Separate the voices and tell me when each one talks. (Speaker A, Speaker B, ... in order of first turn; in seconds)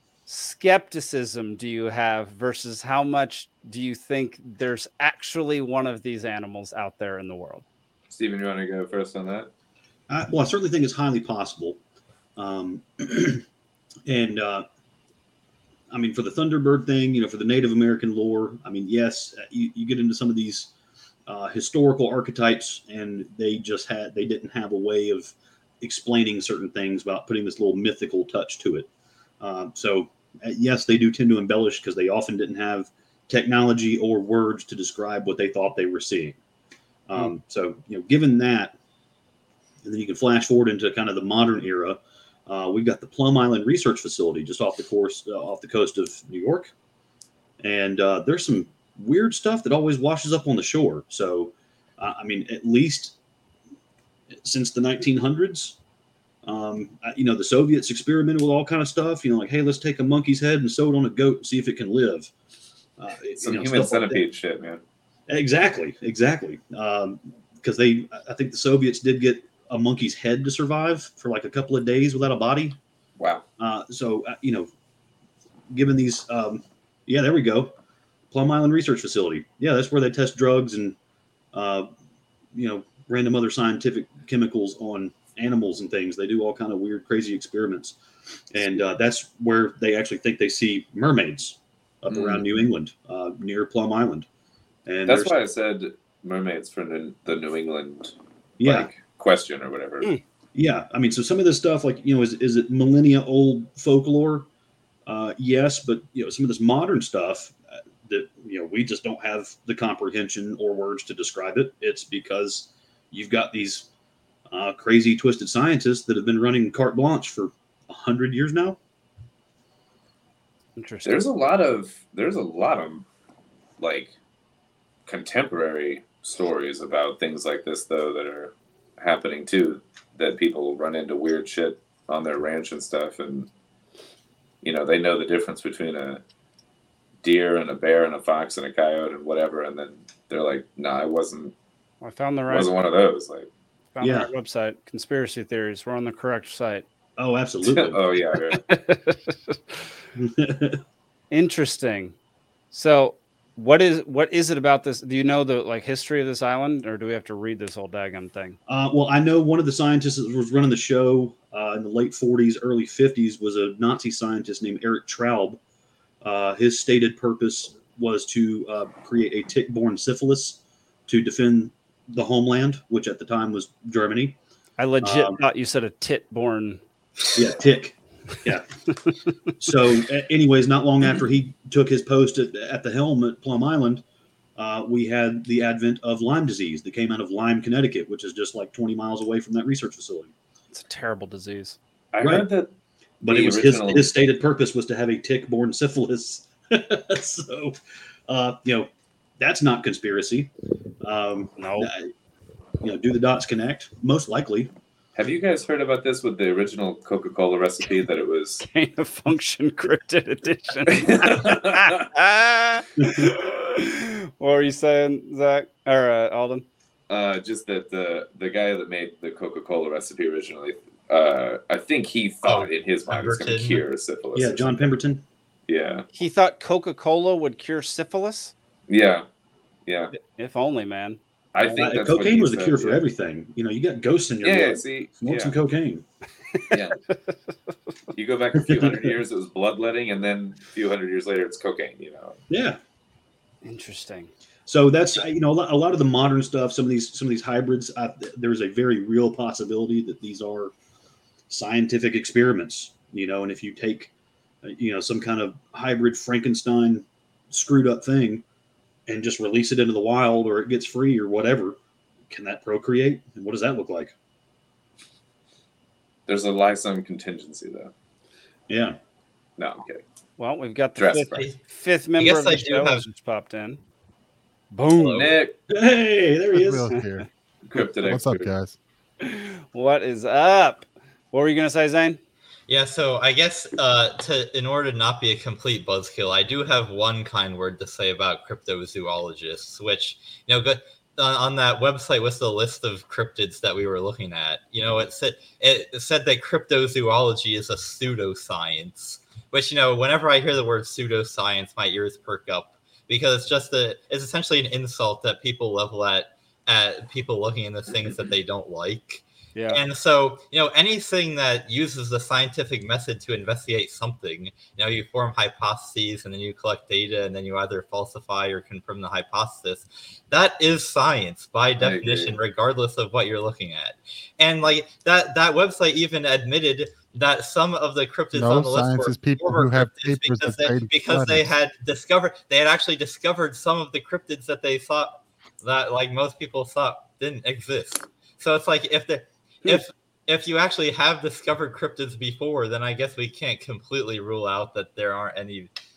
Speaker A: 0.3-7.6, 120.8-121.2, 142.0-142.7, 143.9-146.8, 148.5-149.8, 151.3-152.1, 152.7-158.6, 174.8-176.8, 190.7-191.8, 201.6-201.9, 208.6-216.6, 226.1-228.5, 230.3-231.2, 243.6-244.3, 270.4-273.8, 274.7-275.3, 279.2-282.2, 309.5-309.8
Speaker B: 8.1-9.5, 63.4-64.8, 73.2-73.4, 92.1-92.5, 95.0-100.1, 121.0-123.0, 123.8-124.1, 125.0-133.5, 134.6-136.2, 137.2-141.5, 142.5-143.5, 147.6-148.6, 192.1-192.7, 193.2-194.2, 205.2-208.6, 210.9-212.0, 217.1-224.9, 225.7-226.1, 228.9-229.2, 229.8-230.1, 231.5-233.0, 234.4-235.5, 236.7-237.0, 238.1-242.4, 266.3-267.9, 269.6-270.0, 270.9-271.5, 275.0-275.5, 277.7-278.5, 321.8-322.4
Speaker C: 10.1-11.8, 12.4-13.4, 14.1-14.7, 15.9-20.7, 21.3-28.9, 29.4-36.4, 37.1-38.8, 39.8-46.7, 47.6-53.1, 54.4-55.8, 56.4-62.3, 63.0-64.2, 65.3-72.8, 73.6-74.7, 75.7-77.7, 78.3-81.0, 81.5-81.9, 82.5-88.0, 88.5-94.3, 94.8-95.3, 98.6-98.9, 100.5-104.5, 105.0-113.9, 114.5-118.8, 144.0-144.3, 147.2-148.0, 150.2-150.8, 158.7-165.6, 166.2-174.4, 175.0-175.4, 177.3-178.7, 179.6-184.0, 184.6-190.3, 192.2-192.5, 193.2-197.8, 198.3-200.5, 201.0-202.1, 202.8-204.7, 213.0-213.3, 224.3-225.2, 231.7-236.0, 238.7-239.1, 242.5-242.8, 244.7-250.7, 251.5-254.1, 254.6-258.4, 259.1-261.8, 262.3-264.1, 268.7-269.0, 275.7-276.8
Speaker D: 222.4-223.8, 272.2-273.1, 282.7-345.7
Speaker E: 276.5-277.2, 278.0-278.8, 328.3-331.5